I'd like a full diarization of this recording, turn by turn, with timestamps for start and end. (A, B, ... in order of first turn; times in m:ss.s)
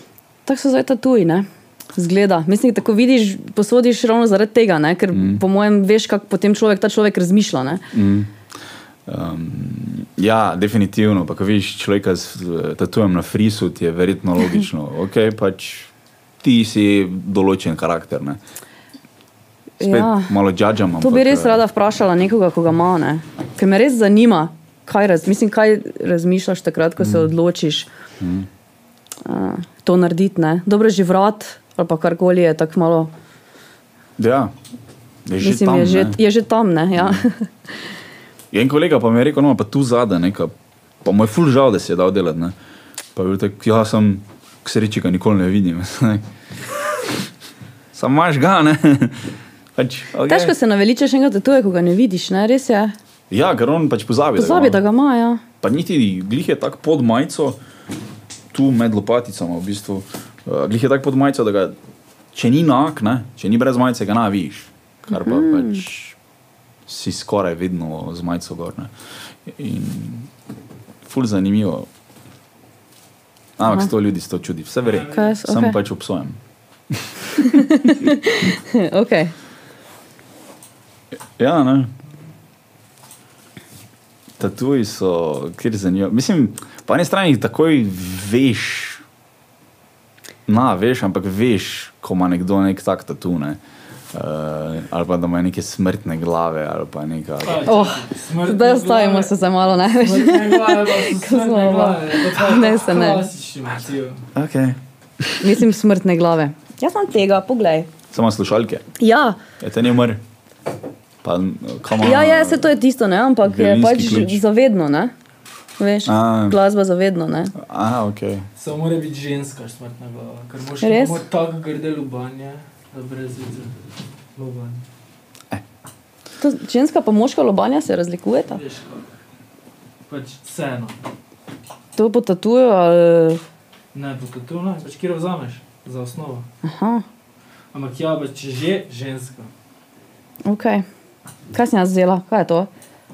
0:00.4-0:07.8 A
0:05.1-0:05.4 B
0:07.9-0:08.3 B
0:09.1-0:15.9 B
0:16.4-0:18.4 B
0:19.8-0:20.3 A
0:19.8-0:21.6 B
0:21.0-0:27.9 A
0:27.0-0:27.3 B
0:28.2-0:28.5 B
0:29.2-0:33.1 A
0:34.2-0:34.5 B
0:35.2-0:36.2 B
0:35.4-0:37.5 A
0:38.5-0:40.5 B
0:41.0-0:42.5 B
0:43.1-0:46.2 B
0:46.9-0:47.2 B
0:47.9-0:50.5 B
0:50.2-0:52.9 A
0:53.3-0:54.8 B
0:54.4-0:55.4 A
0:55.6-0:57.6 B
0:58.5-1:01.8 B
1:02.3-1:06.2 B
1:05.1-1:05.8 A
1:06.9-1:08.9 B
1:09.4-1:10.3 B
1:11.0-1:11.9 B
1:13.6-1:16.4 B
1:14.8-1:15.3 C
1:15.1-1:15.8 A
1:16.9-1:17.6 B
1:17.4-1:19.3 A
1:21.4-1:21.9 B
1:24.4-1:29.0 B
1:30.5-1:33.6 B
1:34.1-1:37.7 B
1:37.4-1:44.2 C
1:37.6-1:43.2 A
1:44.3-1:45.6 B
1:45.4-1:47.9 A
1:48.1-1:48.8 B
1:49.0-1:49.4 A
1:49.6-1:50.2 B
1:51.2-1:52.7 B
1:52.0-1:55.1 A
1:53.4-1:54.4 B
1:55.8-1:57.5 A
1:56.0-1:56.6 B
1:57.6-1:58.5 B
1:58.6-2:03.7 C
2:00.8-2:01.2 A
2:04.4-2:04.8 C
2:06.4-2:08.6 A
2:08.5-2:09.1 C
2:10.1-2:11.0 C
2:12.0-2:13.4 A
2:13.9-2:16.4 C
2:16.6-2:17.0 A
2:17.7-2:19.5 C
2:20.4-2:20.8 A
2:21.5-2:22.7 A